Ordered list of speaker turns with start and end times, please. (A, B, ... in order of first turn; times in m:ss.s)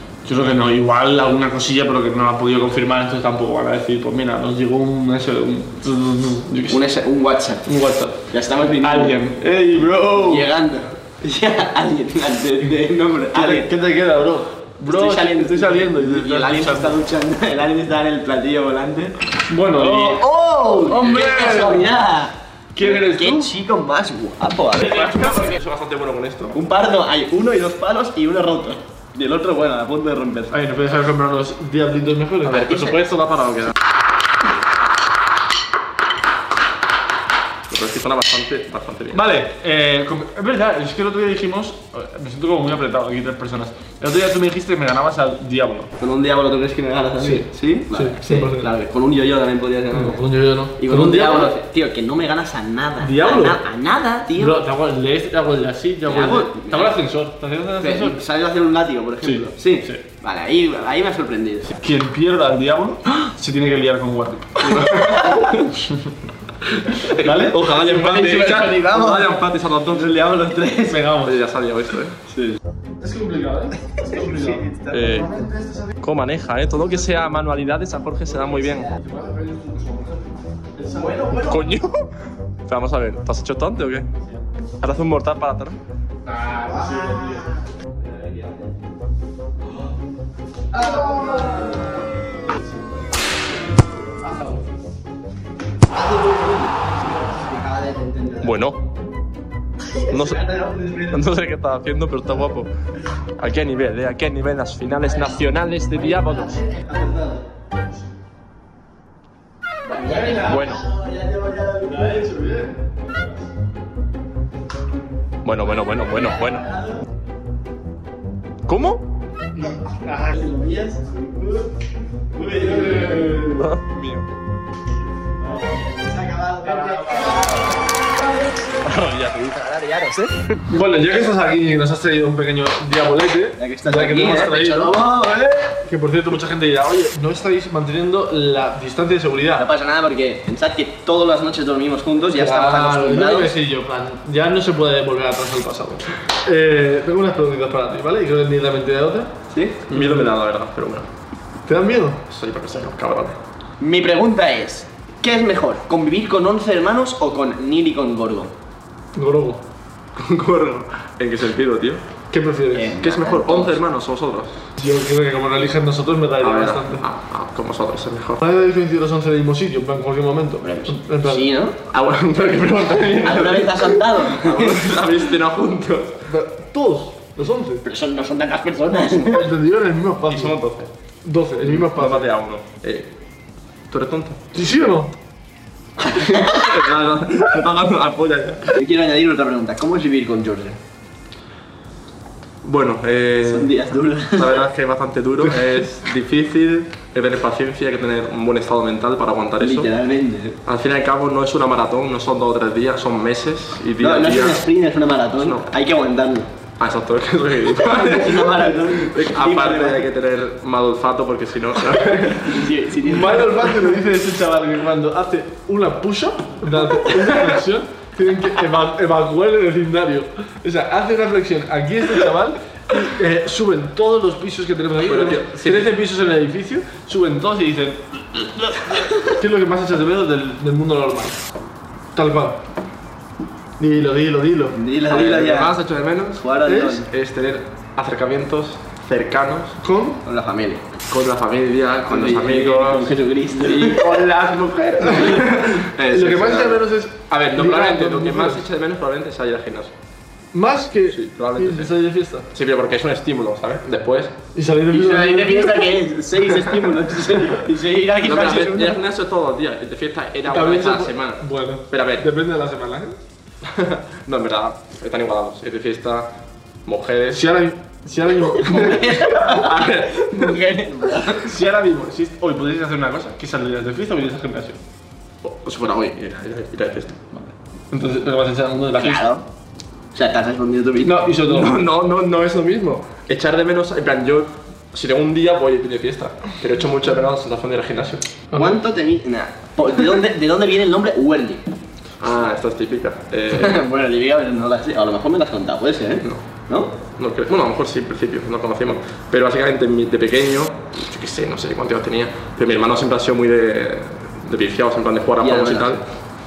0:00.2-0:06.8 A
0:06.7-0:07.7 B
0:07.6-0:10.5 A
0:08.3-0:09.3 B
0:10.1-0:13.7 B
0:13.3-0:17.0 A
0:14.9-0:19.2 B
0:19.5-0:20.2 A
0:19.7-0:25.2 B
0:20.8-0:22.0 A
0:22.8-0:23.5 A
0:24.8-0:26.6 C
0:26.5-0:30.6 B
0:30.5-0:33.0 A
0:32.4-0:33.7 C
0:37.7-0:39.2 C
0:39.1-0:45.9 A
0:46.0-0:50.2 B
0:47.2-0:48.7 A
0:49.9-0:51.6 A
0:50.8-0:54.6 B
0:53.0-0:53.6 A
0:54.3-0:58.2 A
0:56.1-0:57.0 B
0:57.8-1:01.7 B
0:59.2-1:00.0 A
1:01.7-1:06.1 A
1:04.8-1:05.6 C
1:04.9-1:05.4 B
1:06.7-1:08.5 A
1:07.1-1:10.2 C
1:07.7-1:11.0 B
1:10.9-1:11.4 A
1:11.2-1:12.2 C
1:12.3-1:12.6 B
1:13.0-1:16.0 A
1:14.1-1:14.9 B
1:14.9-1:15.4 C
1:16.0-1:18.9 C
1:18.8-1:21.4 A
1:21.0-1:21.6 B
1:21.4-1:22.0 C
1:22.7-1:24.1 C
1:24.8-1:25.8 C
1:26.2-1:27.5 A
1:26.7-1:27.4 B
1:28.0-1:28.7 B
1:30.8-1:31.8 B
1:30.8-1:31.7 A
1:35.9-1:38.5 B
1:38.4-1:38.8 C
1:39.9-1:41.2 B
1:40.1-1:40.4 C
1:41.1-1:42.7 C
1:43.4-1:46.6 C
1:46.0-1:47.4 B
1:49.9-1:52.2 B
1:50.0-1:50.5 A
1:50.4-1:50.8 C
1:51.9-1:53.4 A
1:55.4-1:56.7 C
1:56.1-1:56.9 B
1:58.7-1:59.0 C
1:59.6-2:00.5 A
2:00.3-2:01.7 B
2:02.4-2:03.4 B
2:02.4-2:03.6 A
2:03.5-2:04.3 C
2:05.4-2:07.8 B
2:06.8-2:07.4 A
2:08.8-2:09.5 C
2:09.5-2:10.6 B
2:10.7-2:15.1 A
2:13.6-2:15.8 B
2:15.8-2:19.7 A
2:19.6-2:23.5 B
2:22.3-2:29.3 A
2:29.5-2:29.8 B
2:29.9-2:30.3 A
2:29.9-2:31.1 C
2:31.7-2:32.2 A
2:32.3-2:33.4 C
2:33.8-2:38.5 B
2:39.2-2:39.6 A
2:40.2-2:42.0 C
2:42.3-2:43.0 A
2:42.7-2:43.8 B
2:43.0-2:44.6 C
2:44.8-2:47.0 A
2:46.4-2:48.4 C
2:48.4-2:51.5 A
2:50.6-2:51.8 B
2:51.9-2:56.3 C
2:53.2-2:54.9 B
2:56.3-2:57.8 A
2:57.8-2:59.5 B
2:59.2-3:00.6 A
3:00.3-3:00.9 C
3:01.2-3:02.3 A
3:01.6-3:03.1 C
3:03.9-3:04.4 C
3:04.5-3:05.1 A
3:06.0-3:06.7 B
3:06.2-3:08.7 C
3:08.8-3:10.8 B
3:12.6-3:13.7 C
3:13.4-3:14.6 B
3:14.3-3:19.9 C
3:19.6-3:20.6 B
3:20.7-3:24.7 C
3:24.0-3:26.5 B
3:25.4-3:25.6 C
3:26.8-3:32.7 C
3:27.8-3:30.0 B
3:32.4-3:33.7 B
3:33.0-3:51.4 A
3:45.0-3:45.9 C
3:52.1-3:52.6 A
3:53.8-3:54.8 A
3:54.7-3:55.8 B
3:55.1-3:59.8 C
3:56.4-3:57.1 B
3:56.7-3:57.0 A
3:59.8-4:00.2 A
4:00.2-4:00.8 B
4:01.1-4:09.9 C
4:02.1-4:04.2 B
4:05.0-4:08.6 A
4:10.5-4:12.5 A
4:11.1-4:11.9 C
4:12.5-4:14.4 C
4:14.5-4:16.0 A
4:14.9-4:19.0 B
4:18.2-4:22.3 C
4:20.5-4:23.2 A
4:23.6-4:26.3 C
4:26.9-4:27.5 C
4:27.3-4:29.2 A
4:28.6-4:31.5 B
4:28.9-4:30.7 C
4:31.3-4:34.8 A
4:35.4-4:37.5 C
4:37.9-4:39.2 A
4:39.0-4:39.5 B
4:40.1-4:41.3 B
4:41.0-4:41.8 A
4:41.4-4:48.2 C
4:48.5-4:48.8 A
4:48.5-4:51.6 B
4:52.2-4:53.8 C
4:53.5-4:56.9 B
4:57.2-5:06.0 C
5:05.4-5:06.0 B